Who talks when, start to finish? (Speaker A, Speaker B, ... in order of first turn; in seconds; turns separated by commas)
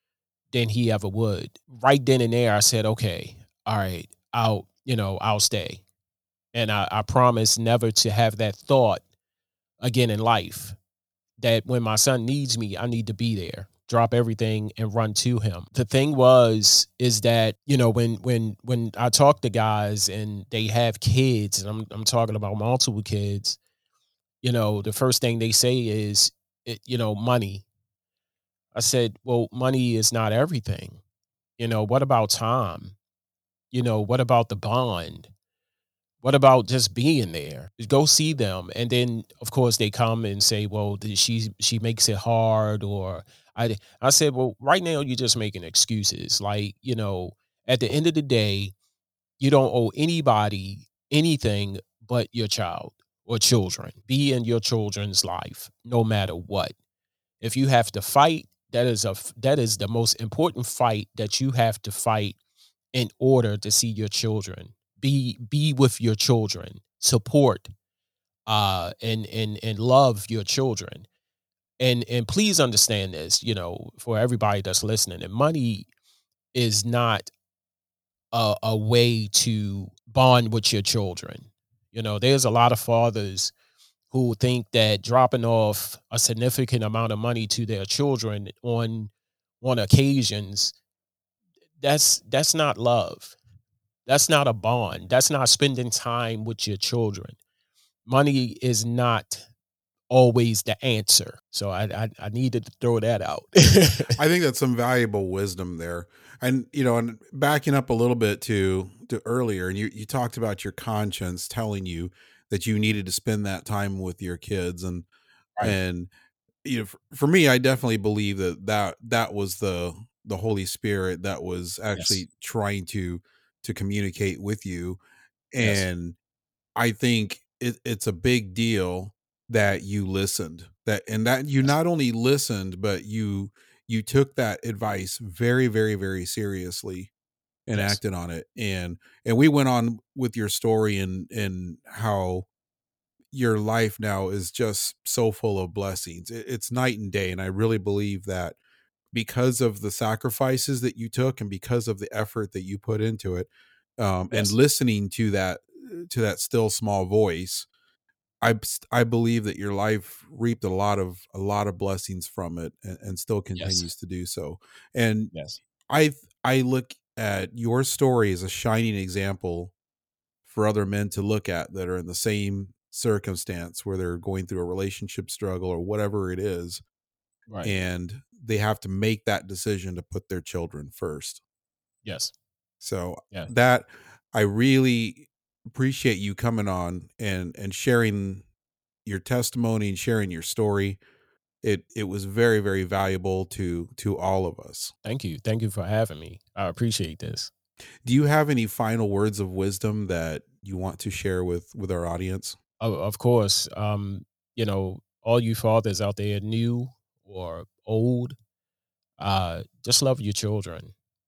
Speaker A: 0.5-5.8, Speaker A: 6.5-9.0, Speaker A: 9.8-10.8, Speaker A: 11.4-23.6, Speaker A: 24.4-27.6, Speaker A: 28.7-31.0, Speaker A: 31.6-33.0, Speaker A: 33.7-35.3, Speaker A: 36.2-48.7, Speaker A: 49.4-56.8, Speaker A: 57.4-62.4, Speaker A: 62.9-67.7, Speaker A: 68.5-71.1, Speaker A: 71.8-75.9, Speaker A: 76.5-77.3, Speaker A: 78.3-83.5, Speaker A: 84.1-90.7, Speaker A: 91.8-93.4, Speaker A: 94.1-97.4, Speaker A: 98.1-99.5, Speaker A: 100.1-104.2, Speaker B: 104.2-115.1, Speaker B: 115.6-116.1, Speaker B: 116.7-125.0, Speaker A: 122.0-122.2, Speaker B: 125.5-126.2, Speaker A: 125.6-125.8, Speaker B: 126.8-137.1, Speaker B: 137.7-142.5, Speaker A: 137.7-138.0, Speaker B: 143.3-148.6, Speaker B: 149.1-157.7, Speaker B: 158.4-165.3, Speaker A: 163.6-163.9, Speaker A: 165.3-165.6, Speaker B: 165.9-169.7, Speaker B: 170.5-176.8, Speaker A: 177.5-177.8, Speaker B: 177.6-181.4, Speaker A: 182.0-182.3, Speaker B: 182.8-188.4, Speaker B: 189.1-191.0, Speaker B: 191.6-194.9, Speaker A: 195.0-197.5, Speaker B: 198.0-202.6, Speaker A: 202.8-208.4, Speaker A: 209.2-210.9